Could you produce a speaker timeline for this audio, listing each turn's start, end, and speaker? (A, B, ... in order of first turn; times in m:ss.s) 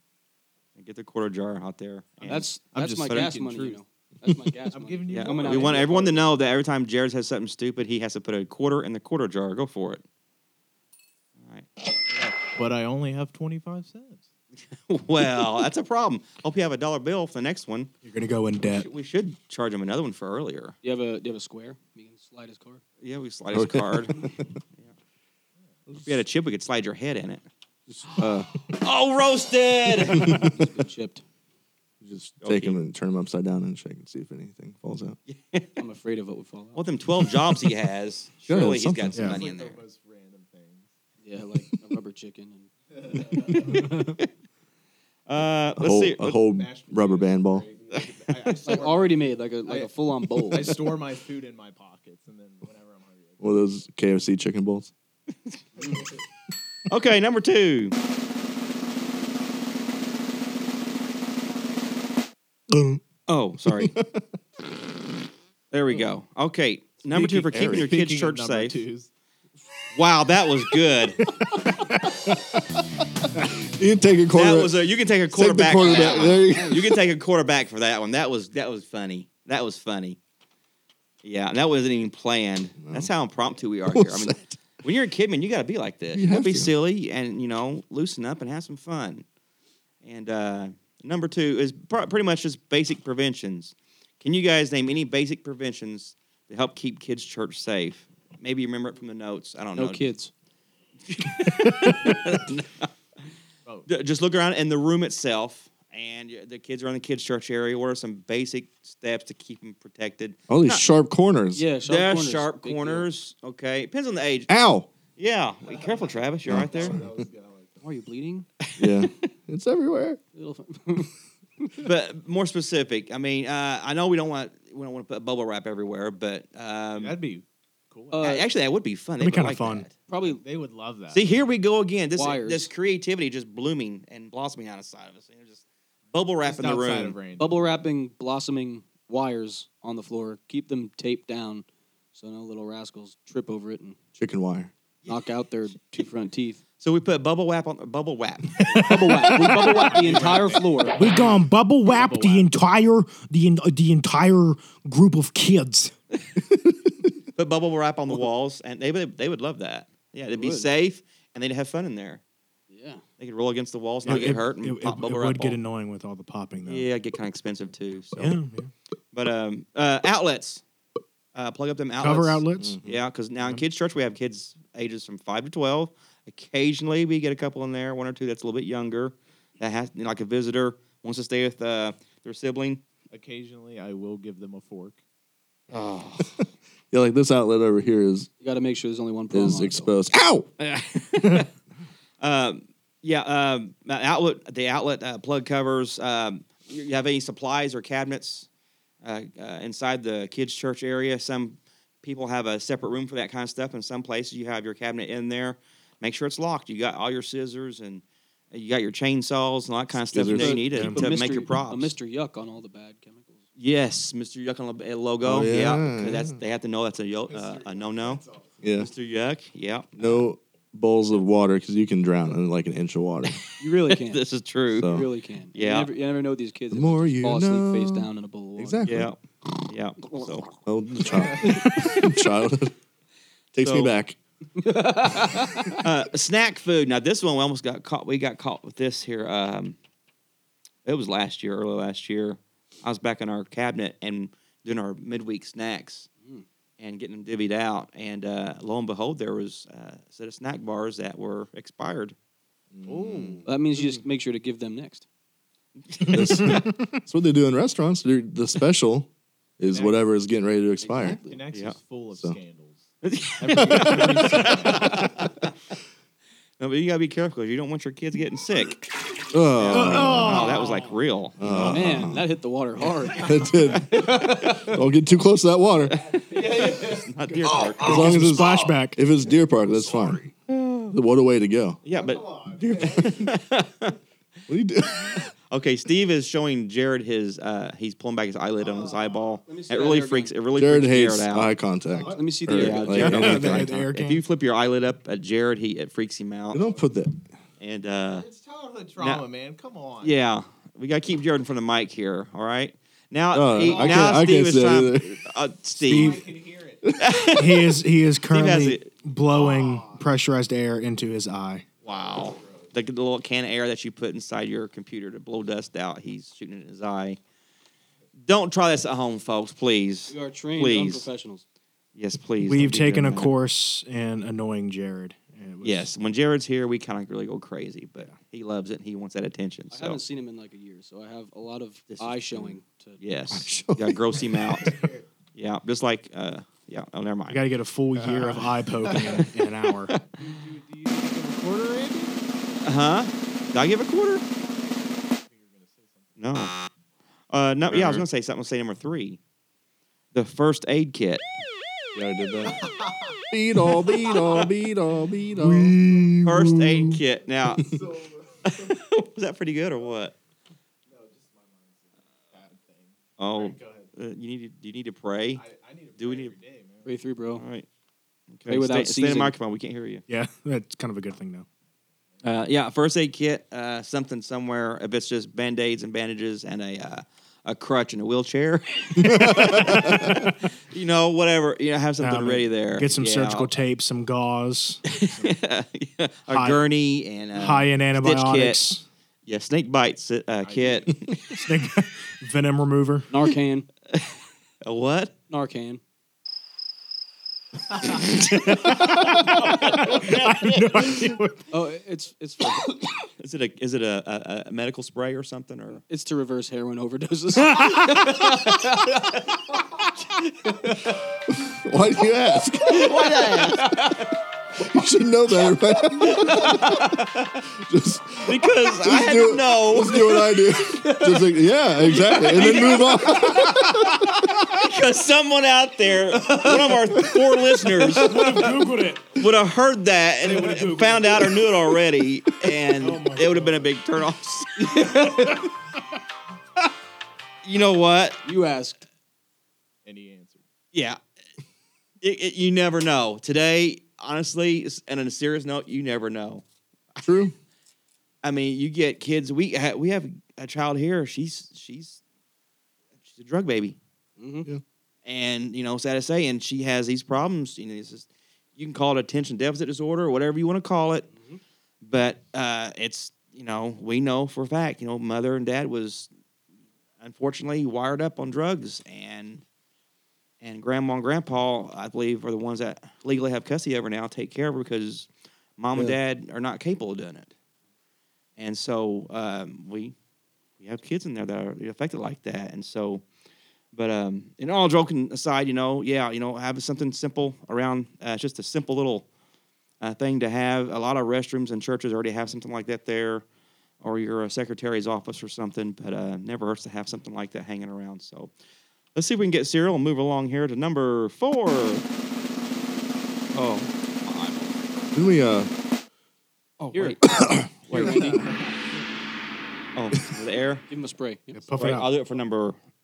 0:00.8-0:03.3 A
0:02.2-0:06.0 B
0:02.7-0:03.8 C
0:04.7-0:06.3 C
0:05.1-0:10.0 A
0:11.4-0:11.7 A
0:12.1-0:14.3 C
0:14.8-0:17.9 A
0:18.0-0:18.9 D
0:18.6-0:20.8 A
0:20.8-0:22.8 B
0:23.0-0:24.3 A
0:23.5-0:24.4 E
0:26.0-0:27.5 A
0:28.0-0:30.3 A
0:28.1-0:28.5 E
0:30.1-0:31.2 B
0:30.1-0:30.6 E
0:32.0-0:35.2 E
0:32.4-0:32.8 A
0:35.3-0:35.7 A
0:35.8-0:36.8 B
0:36.8-0:39.8 A
0:38.5-0:39.4 E
0:39.2-0:40.9 C
0:41.2-0:42.7 B
0:42.9-0:44.0 C
0:43.7-0:44.3 A
0:45.3-0:46.4 A
0:45.8-0:47.7 E
0:46.5-0:53.7 C
0:48.3-0:48.8 A
0:48.7-0:50.9 B
0:53.4-0:54.9 E
0:55.8-0:56.1 C
0:56.9-0:58.0 A
1:03.3-1:03.9 A
1:03.7-1:04.2 E
1:05.7-1:08.8 A
1:07.1-1:07.9 E
1:07.2-1:09.1 C
1:09.9-1:11.2 A
1:13.7-1:17.0 E
1:14.3-1:20.2 A
1:15.9-1:16.8 B
1:21.2-1:29.2 A
1:22.8-1:23.1 E
1:23.9-1:24.6 E
1:26.1-1:26.7 E
1:30.0-1:40.1 A
1:39.8-1:40.3 B
1:41.1-1:42.9 A
1:43.9-1:50.8 A
1:50.5-1:51.6 E
1:51.6-1:53.1 B
1:51.8-1:54.5 A
1:54.5-1:54.9 E
1:55.2-1:57.0 A
1:55.6-1:57.9 C
1:56.5-1:57.1 E
1:57.8-1:58.5 B
1:58.6-1:59.1 A
1:58.8-2:00.2 E
2:00.3-2:01.7 B
2:01.8-2:07.2 A
2:07.0-2:08.2 C
2:08.1-2:08.4 B
2:08.2-2:09.9 A
2:09.2-2:09.9 D
2:10.1-2:10.4 B
2:10.2-2:11.3 C
2:11.1-2:17.2 A
2:12.2-2:12.7 B
2:16.4-2:17.8 C
2:17.4-2:24.0 B
2:24.2-2:24.7 E
2:25.1-2:26.6 B
2:26.8-2:28.8 A
2:28.6-2:29.7 D
2:28.9-2:31.0 B
2:29.3-2:32.5 C
2:31.0-2:35.9 D
2:37.4-2:42.2 A
2:40.3-2:40.7 B
2:42.7-2:43.0 B
2:43.2-2:45.6 A
2:44.0-2:46.9 D
2:46.7-2:48.4 A
2:48.2-2:48.7 D
2:49.1-2:50.6 A
2:51.4-3:02.8 A
2:52.0-2:52.8 D
2:52.6-2:53.0 E
3:03.1-3:05.0 C
3:05.7-3:06.4 A
3:06.9-3:08.3 E
3:08.4-3:10.0 B
3:09.3-3:10.5 E
3:10.6-3:11.5 A
3:12.2-3:18.5 A
3:19.0-3:31.9 A
3:30.1-3:30.9 E
3:30.2-3:33.4 B
3:30.7-3:31.1 D
3:33.6-3:38.2 A
3:35.2-3:36.4 E
3:37.3-3:38.6 C
3:38.6-3:38.9 E
3:38.8-3:40.2 A
3:40.0-3:43.4 E
3:43.6-3:44.2 B
3:43.9-3:45.0 A
3:44.8-3:45.1 E
3:44.8-3:49.0 B
3:45.5-3:45.9 A
3:46.7-3:49.1 E
3:48.8-3:50.5 A
3:50.0-3:50.6 B
3:50.7-3:52.7 E
3:53.5-3:54.2 E
3:53.6-3:53.9 A
3:54.6-3:55.8 B
3:55.8-3:59.8 A
4:00.8-4:06.1 A
4:06.8-4:12.2 A
4:12.7-4:13.4 E
4:12.9-4:13.5 C
4:13.5-4:15.0 B
4:15.9-4:16.7 A
4:16.1-4:21.2 E
4:19.7-4:20.0 C
4:20.8-4:21.4 B
4:21.0-4:25.3 C
4:23.0-4:25.5 A
4:26.6-4:28.8 A
4:29.3-4:30.6 E
4:29.6-4:31.7 A
4:29.7-4:30.9 D
4:31.4-4:32.2 E
4:31.4-4:34.6 B
4:33.2-4:36.0 E
4:34.2-4:34.5 A
4:36.0-4:37.7 C
4:36.1-4:38.1 A
4:37.8-4:40.3 E
4:37.8-4:39.0 D
4:40.5-4:41.0 A
4:40.9-4:41.8 E
4:41.8-4:44.0 A
4:41.9-4:43.3 C
4:44.5-4:45.3 E
4:45.2-4:51.5 A
4:48.6-4:49.4 C
4:49.5-4:50.3 B
4:50.6-4:53.7 E
4:51.9-4:52.3 C
4:52.1-4:53.4 B
4:52.5-4:56.6 A
4:52.9-4:54.2 D
4:56.5-4:57.2 E
4:56.5-4:56.8 C
4:57.6-4:58.3 A
4:58.0-5:00.2 C
4:59.0-4:59.2 A
5:00.0-5:06.2 A
5:03.3-5:05.2 E
5:03.6-5:04.2 C
5:05.8-5:06.3 D
5:05.8-5:07.0 C
5:07.0-5:08.9 A
5:07.3-5:11.6 D
5:09.3-5:10.1 C
5:11.8-5:12.7 C
5:11.8-5:17.2 A
5:18.3-5:21.1 A
5:20.1-5:21.4 B
5:22.0-5:23.3 A
5:22.4-5:25.9 D
5:25.6-5:30.0 A
5:29.7-5:33.0 B
5:31.9-5:34.8 A
5:33.3-5:34.0 E
5:34.2-5:35.0 C
5:35.4-5:37.5 A
5:37.3-5:39.9 D
5:38.0-5:39.3 C
5:40.2-5:42.8 C
5:42.6-5:44.2 A
5:44.7-5:46.2 C
5:46.2-5:46.5 A
5:47.3-5:49.2 A
5:47.7-5:48.0 E
5:50.1-5:51.2 A
5:52.0-5:52.6 E
5:52.4-5:54.5 C
5:53.3-5:57.0 E
5:55.5-5:56.1 C
5:56.2-5:57.7 A
5:57.5-5:58.8 C
5:58.5-6:00.2 A
6:00.9-6:03.9 C
6:03.2-6:05.4 A
6:05.3-6:07.0 C
6:06.0-6:06.3 A
6:06.8-6:07.4 B
6:07.4-6:07.7 A
6:08.3-6:10.0 A
6:08.5-6:09.3 B
6:10.1-6:11.5 D
6:12.2-6:12.4 C
6:12.2-6:23.6 A
6:19.0-6:20.1 E
6:19.6-6:20.2 D
6:22.0-6:25.4 D
6:24.9-6:28.6 A
6:26.3-6:26.6 D
6:27.3-6:28.8 D
6:29.3-6:31.2 A
6:30.4-6:31.1 C
6:31.3-6:33.1 D
6:33.1-6:33.7 B
6:34.6-6:35.1 A
6:35.3-6:35.8 B
6:37.8-6:41.2 A
6:38.4-6:41.5 D
6:41.5-6:42.8 B
6:43.2-6:45.8 A
6:45.9-6:49.0 B
6:51.3-6:53.0 E
6:52.7-6:53.7 A
6:53.4-6:54.0 B
6:54.6-6:56.6 E
6:56.0-6:57.1 A
6:57.6-7:04.0 E
6:58.2-7:00.0 A
7:00.8-7:01.2 B
7:02.1-7:03.4 A
7:04.5-7:08.6 A
7:07.8-7:09.2 D
7:09.1-7:14.8 A
7:10.3-7:11.2 D
7:10.4-7:11.2 C
7:12.8-7:13.7 D
7:14.6-7:15.5 B
7:17.4-7:18.2 A
7:18.2-7:18.8 B
7:19.8-7:20.4 C
7:20.7-7:21.0 A
7:22.0-7:26.4 A
7:27.0-7:27.3 E
7:28.2-7:32.0 A
7:33.1-7:33.8 A
7:34.2-7:34.5 B
7:35.0-7:41.1 A
7:41.8-7:46.1 A
7:47.0-7:49.4 A
7:50.4-7:57.3 A
7:58.4-8:00.0 A
8:00.6-8:03.0 A
8:03.7-8:09.1 A
8:09.8-8:13.2 A
8:13.8-8:18.3 A
8:19.0-8:21.8 A
8:23.3-8:24.9 A
8:24.9-8:25.5 E
8:26.6-8:27.0 A
8:26.7-8:28.4 B
8:27.1-8:27.5 E
8:27.7-8:28.2 A
8:27.8-8:28.9 C
8:29.8-8:30.6 A
8:30.7-8:31.6 B
8:31.3-8:31.9 D
8:31.6-8:32.6 A